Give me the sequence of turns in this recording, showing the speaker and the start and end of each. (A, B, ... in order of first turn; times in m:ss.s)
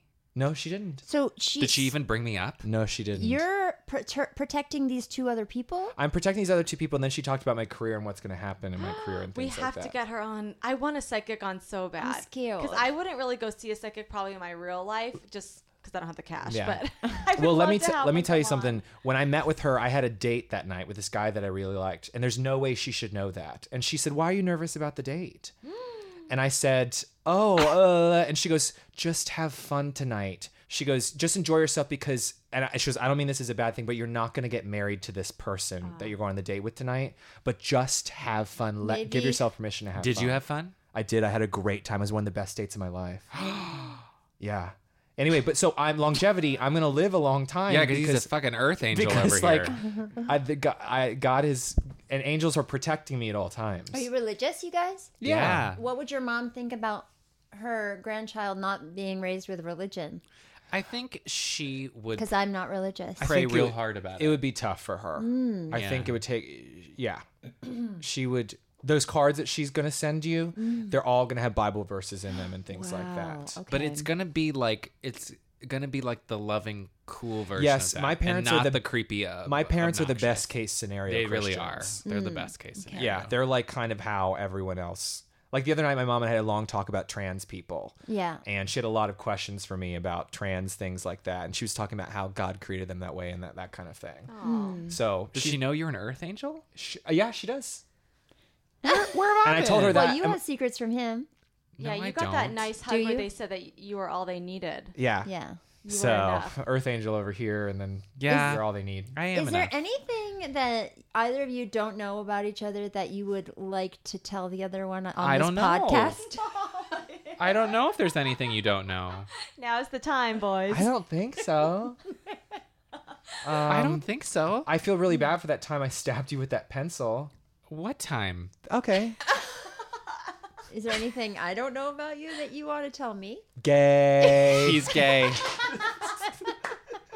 0:00.3-0:01.0 A
0:01.0-0:01.9 B
0:01.6-0:02.6 C
0:02.6-0:03.4 A
0:03.2-0:06.0 B
0:06.0-0:09.9 A
0:08.8-0:18.8 D
0:12.0-0:12.9 B
0:16.5-0:25.5 A
0:26.3-0:43.3 A
0:38.8-0:39.4 B
0:40.0-0:40.7 C
0:43.3-0:44.0 C
0:44.4-0:48.3 A
0:47.7-0:49.8 C
0:48.9-0:54.1 A
0:53.9-0:55.2 B
0:55.2-0:55.7 A
0:55.2-0:55.8 C
0:55.7-1:00.2 B
1:00.7-1:02.3 C
1:02.2-1:03.3 B
1:03.2-1:04.4 C
1:03.2-1:13.6 A
1:05.2-1:05.8 B
1:05.7-1:06.2 C
1:10.6-1:11.0 B
1:12.7-1:14.1 B
1:13.7-1:20.5 C
1:17.5-1:18.9 A
1:19.4-1:22.0 A
1:21.0-1:23.3 C
1:22.0-1:23.1 B
1:22.9-1:34.3 A
1:28.1-1:28.4 B
1:34.3-1:34.8 D
1:34.4-1:35.0 B
1:34.9-1:35.6 A
1:35.3-1:36.6 C
1:36.7-1:37.8 A
1:38.8-1:41.3 B
1:39.4-1:40.4 A
1:39.6-1:40.1 C
1:41.8-1:42.7 C
1:41.8-1:44.9 D
1:42.8-1:43.3 B
1:44.9-1:45.3 A
1:45.2-1:45.6 B
1:45.8-1:46.6 D
1:45.9-1:49.2 A
1:48.2-1:49.7 C
1:49.3-1:56.4 B
1:55.2-1:56.2 C
1:57.4-1:59.3 C
1:59.6-2:00.9 D
2:00.7-2:02.0 A
2:03.4-2:04.0 A
2:03.6-2:04.7 C
2:04.6-2:07.3 A
2:07.7-2:08.5 C
2:08.6-2:09.2 A
2:10.7-2:13.4 B
2:13.6-2:14.9 A
2:14.5-2:15.4 C